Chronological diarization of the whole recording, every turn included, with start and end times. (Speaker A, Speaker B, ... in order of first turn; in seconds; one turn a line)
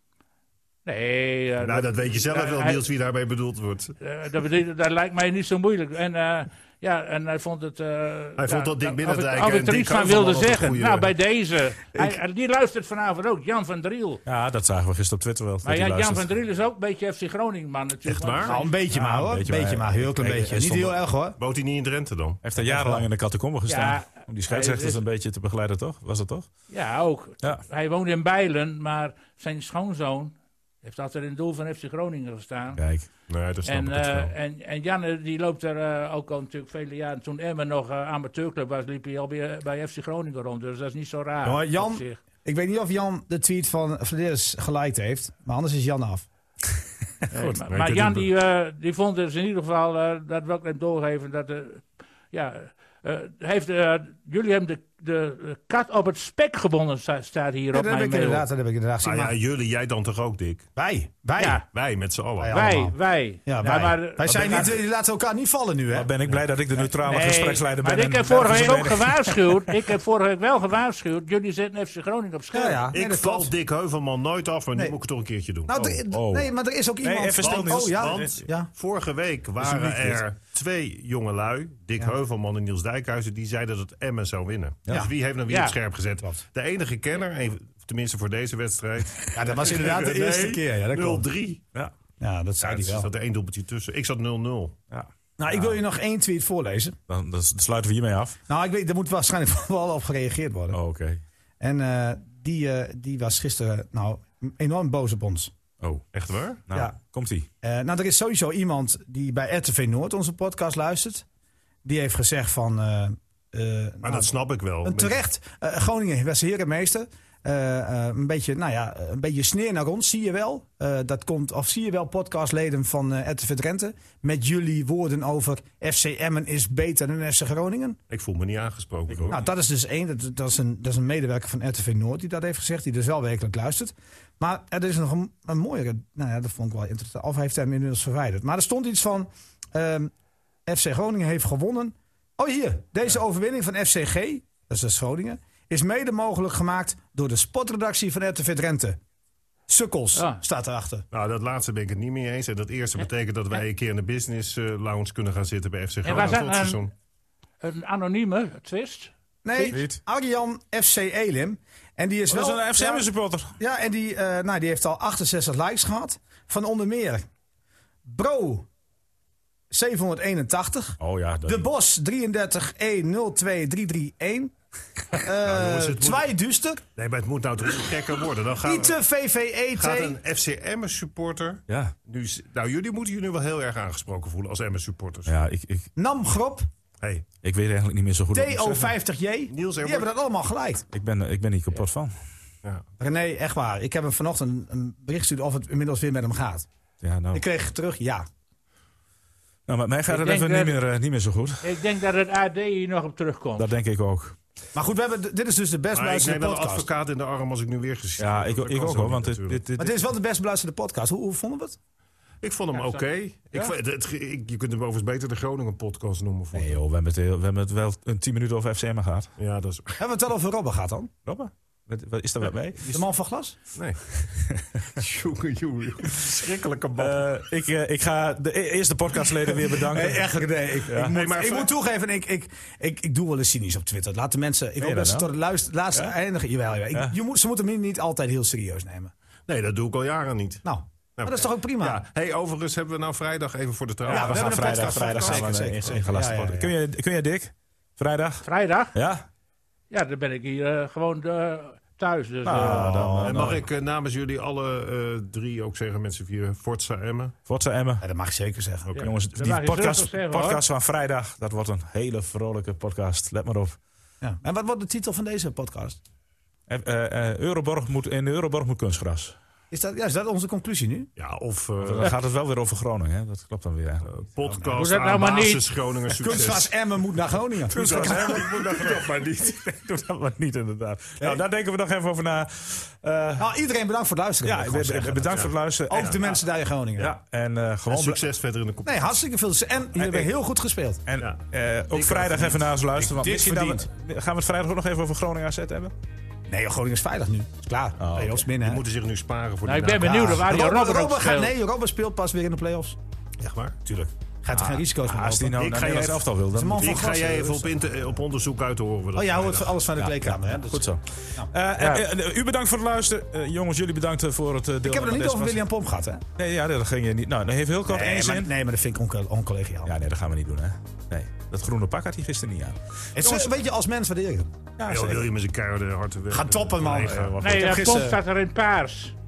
Speaker A: 0.8-2.8
Speaker B: 1.6-4.0
Speaker A: 4.0-14.2
Speaker B: 8.4-11.1
Speaker C: 14.3-16.3
Speaker A: 15.6-18.8
Speaker B: 18.1-18.6
Speaker D: 18.4-21.4
Speaker C: 18.9-21.0
Speaker B: 21.4-22.4
Speaker C: 22.4-26.5
Speaker D: 22.6-23.1
Speaker A: 23.7-25.0
Speaker A: 26.7-32.8
Speaker C: 32.8-33.1
Speaker B: 33.3-34.3
Speaker A: 33.6-42.2
Speaker D: 41.4-46.3
Speaker C: 47.3-47.6
Speaker A: 47.3-58.5
Speaker B: 47.7-48.3
Speaker D: 57.7-59.3
Speaker B: 59.0-60.7
Speaker D: 60.8-61.6
Speaker A: 61.4-61.6
Speaker B: 61.7-62.7
Speaker D: 62.4-66.1
Speaker A: 62.5-64.7
Speaker C: 64.3-64.8
Speaker C: 65.9-69.8
Speaker A: 67.0-72.8
Speaker D: 72.5-73.5
Speaker B: 72.9-75.7
Speaker D: 75.7-78.7
Speaker C: 75.7-76.5
Speaker C: 77.0-78.5
Speaker B: 77.4-91.7
Speaker C: 79.6-80.2
Speaker A: 85.5-85.8
Speaker D: 89.3-91.3
Speaker D: 92.2-93.1
Speaker B: 92.6-94.8
Speaker C: 94.9-95.8
Speaker D: 95.4-97.0
Speaker C: 97.1-98.4
Speaker D: 98.5-100.8
Speaker C: 100.7-101.2
Speaker D: 101.6-105.5
Speaker C: 105.8-106.1
Speaker B: 106.1-106.6
Speaker C: 106.7-107.5
Speaker D: 107.6-111.2
Speaker D: 111.8-114.3
Speaker B: 114.0-115.2
Speaker D: 114.8-128.0
Speaker B: 128.1-129.4
Speaker C: 129.1-129.5
Speaker D: 129.3-140.1
Speaker D: 140.7-149.0
Speaker D: 149.7-151.1
Speaker A: 150.2-150.4
Speaker B: 151.1-156.9
Speaker A: 156.0-156.9
Speaker A: 157.6-159.1
Speaker D: 159.4-163.1
Speaker C: 159.6-160.0
Speaker C: 162.3-163.6
Speaker D: 163.6-167.3
Speaker D: 168.1-168.7
Speaker D: 169.7-174.5
Speaker C: 171.0-171.7
Speaker D: 175.1-176.8
Speaker B: 175.4-176.2
Speaker B: 177.0-179.0
Speaker D: 178.6-180.2
Speaker B: 179.8-185.3
Speaker C: 181.7-181.9
Speaker C: 185.3-185.9
Speaker D: 186.0-186.7
Speaker C: 187.4-188.9
Speaker D: 188.3-190.9
Speaker B: 189.5-190.1
Speaker C: 190.9-192.1
Speaker D: 193.0-196.7
Speaker C: 197.0-197.4
Speaker D: 197.3-198.3
Speaker C: 199.7-201.7
Speaker A: 200.1-200.8
Speaker A: 201.6-203.7
Speaker C: 203.6-204.4
Speaker D: 204.7-206.9
Speaker B: 205.9-209.6
Speaker C: 208.2-210.0
Speaker D: 209.8-211.8
Speaker B: 212.4-216.7
Speaker A: 212.7-213.1
Speaker C: 216.5-219.3
Speaker B: 219.4-220.0
Speaker D: 220.0-221.1
Speaker C: 221.2-223.0
Speaker D: 222.9-223.6
Speaker B: 223.8-224.0
Speaker C: 224.2-224.8
Speaker B: 224.9-227.3
Speaker C: 227.0-230.3
Speaker D: 229.7-239.1
Speaker C: 230.9-231.2
Speaker B: 231.1-231.7
Speaker C: 234.8-235.3
Speaker B: 239.5-240.6
Speaker D: 240.7-242.0
Speaker B: 241.2-246.4
Speaker D: 244.1-246.7
Speaker C: 244.1-249.2
Speaker A: 248.4-248.9
Speaker A: 249.9-253.1
Speaker C: 252.4-253.6
Speaker D: 252.6-253.6
Speaker B: 253.2-257.4
Speaker C: 257.5-258.1
Speaker D: 258.0-258.9
Speaker C: 259.0-263.8
Speaker A: 259.0-260.6
Speaker D: 264.2-266.0
Speaker C: 266.7-269.4
Speaker D: 269.7-271.1
Speaker B: 271.2-272.1
Speaker C: 271.8-274.2
Speaker B: 274.1-276.7
Speaker A: 274.7-275.7
Speaker D: 276.2-278.4
Speaker C: 277.7-283.5
Speaker B: 277.8-279.6
Speaker D: 283.4-287.1
Speaker C: 284.4-286.4
Speaker B: 285.3-286.2
Speaker C: 287.0-288.2
Speaker B: 287.9-289.1
Speaker D: 288.9-291.0
Speaker C: 290.0-290.3
Speaker C: 291.1-295.9
Speaker B: 291.9-292.7
Speaker D: 293.0-293.9
Speaker D: 296.5-298.8
Speaker C: 298.0-298.4
Speaker B: 298.6-300.4
Speaker A: 299.7-301.5
Speaker D: 300.0-303.0
Speaker B: 303.4-303.8
Speaker D: 303.9-305.8
Speaker C: 304.5-307.1
Speaker B: 305.5-309.8
Speaker D: 306.5-307.8
Speaker D: 309.1-311.5
Speaker C: 310.0-315.6
Speaker D: 314.8-316.2
Speaker C: 316.4-318.5
Speaker D: 317.9-319.9
Speaker C: 319.9-323.5
Speaker D: 323.1-324.5
Speaker C: 324.8-325.3
Speaker B: 324.9-327.4
Speaker D: 326.3-328.1
Speaker C: 327.1-328.2
Speaker A: 327.4-329.1